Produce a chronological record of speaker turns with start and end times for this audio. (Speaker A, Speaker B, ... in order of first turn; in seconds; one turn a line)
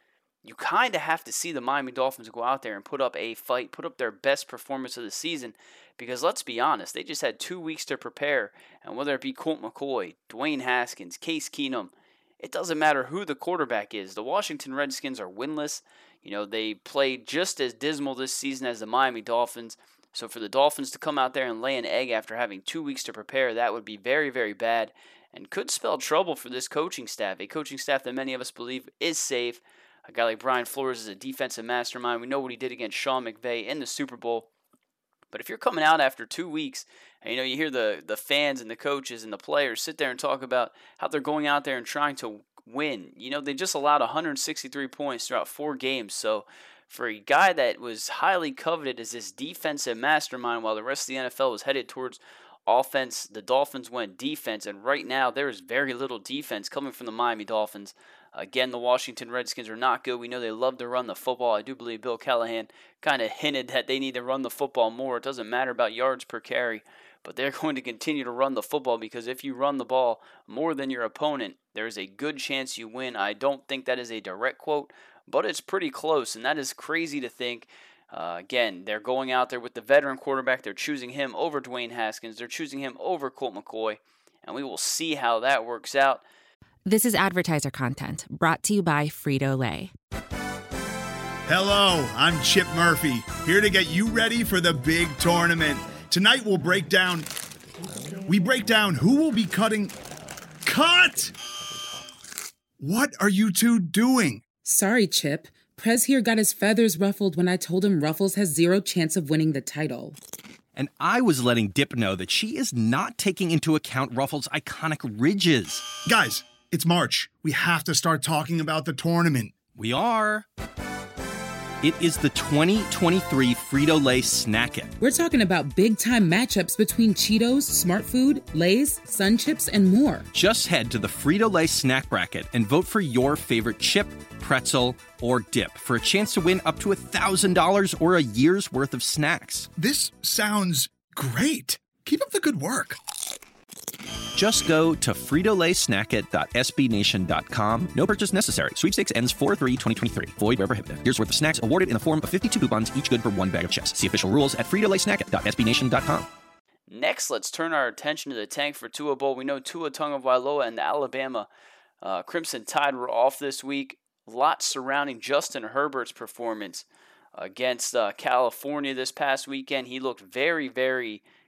Speaker A: 0.4-34.5
Speaker A: 35.3-86.2
Speaker B: 86.8-89.9
Speaker C: 91.5-97.3
Speaker C: 98.2-99.9
Speaker C: 100.6-101.3
Speaker C: 102.8-104.4
Speaker D: 104.6-110.2
Speaker E: 110.7-115.9
Speaker C: 116.0-119.5
Speaker E: 119.7-120.5
Speaker E: 121.8-124.9
Speaker D: 125.0-130.2
Speaker E: 130.3-139.7
Speaker C: 139.8-143.0
Speaker E: 144.3-156.3
Speaker A: 156.9-161.5
Speaker A: 162.0-171.2